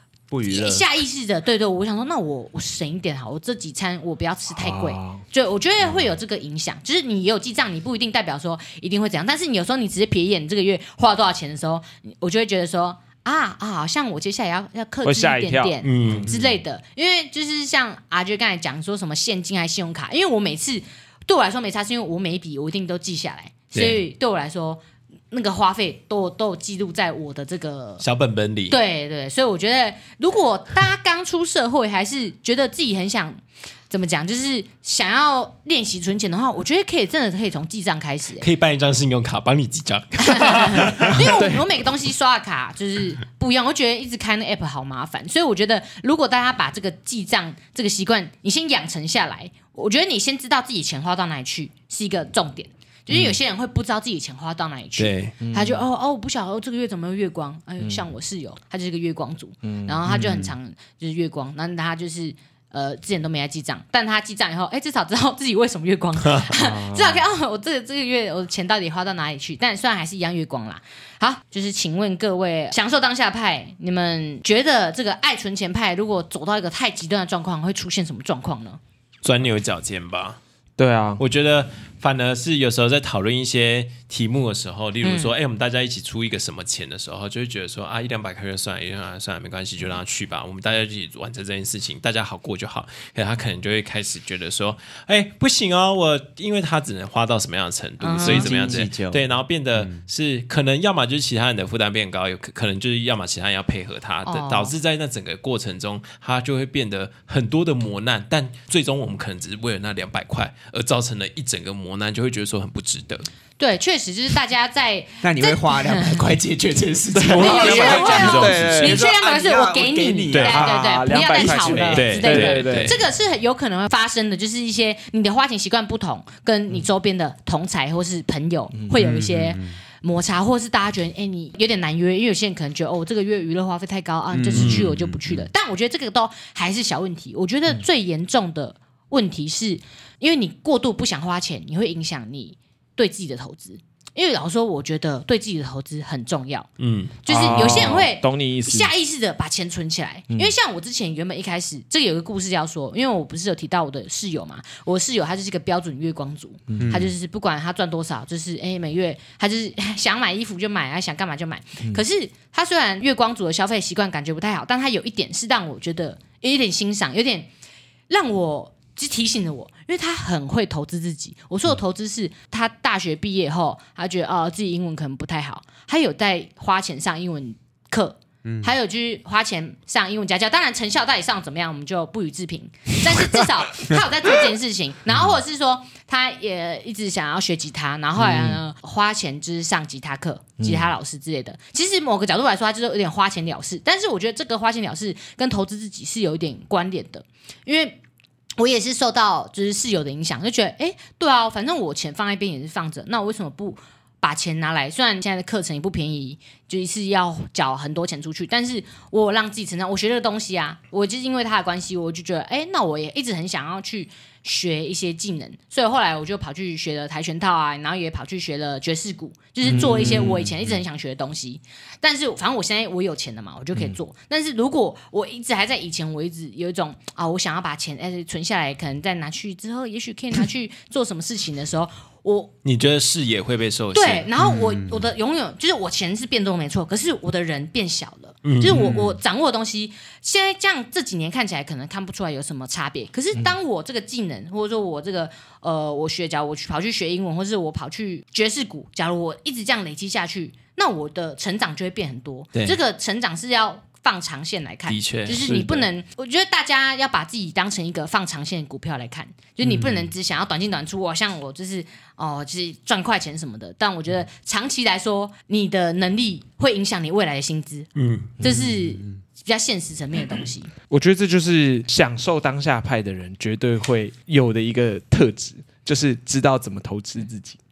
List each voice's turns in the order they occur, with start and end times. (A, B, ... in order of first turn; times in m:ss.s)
0:00.3-0:00.8 A
0:00.5-0:28.0 B
0:04.5-0:05.2 C
0:15.0-0:16.3 C
0:15.8-0:16.3 D
0:23.7-0:24.0 D
0:28.0-0:28.8 D
0:28.7-0:38.5 B
0:38.4-0:41.2 D
0:40.2-1:18.8 B
0:41.1-0:41.7 C
0:55.0-0:55.3 D
0:55.4-0:55.8 C
0:59.6-1:00.4 C
1:06.5-1:07.2 C
1:19.2-1:20.4 D
1:20.8-1:21.2 C
1:21.2-1:53.3 D
1:25.0-1:25.3 B
1:38.0-1:38.6 B
1:38.2-1:39.2 A
1:39.8-1:40.0 A
1:44.2-1:44.7 B
1:53.6-1:56.3 B
1:55.2-2:01.8 A
1:57.1-1:59.0 C
1:57.2-1:58.8 D
1:57.4-2:26.7 B
2:00.3-2:00.6 D
2:00.5-2:03.0 C
2:01.7-2:03.0 D
2:08.7-2:09.2 C
2:09.0-2:09.8 A
2:14.3-2:15.5 A
2:14.5-2:14.9 D
2:26.8-2:27.9 D
2:27.2-2:47.5 B
2:27.3-2:28.9 C
2:36.7-2:37.0 C
2:36.8-2:37.1 A
2:48.1-3:18.0 B
2:58.4-2:58.7 A
3:08.2-3:08.6 C
3:10.6-3:10.9 C
3:18.6-3:52.5 B
3:39.6-3:40.5 C
3:52.6-3:54.3 D
3:53.9-4:27.9 B
3:54.4-3:55.1 A
3:58.4-3:59.0 D
4:14.9-4:15.5 D
4:15.4-4:15.9 C
4:19.6-4:20.0 A
4:28.0-4:28.3 D
4:28.4-4:28.8 C
4:28.4-4:30.7 B
4:30.9-4:37.6 C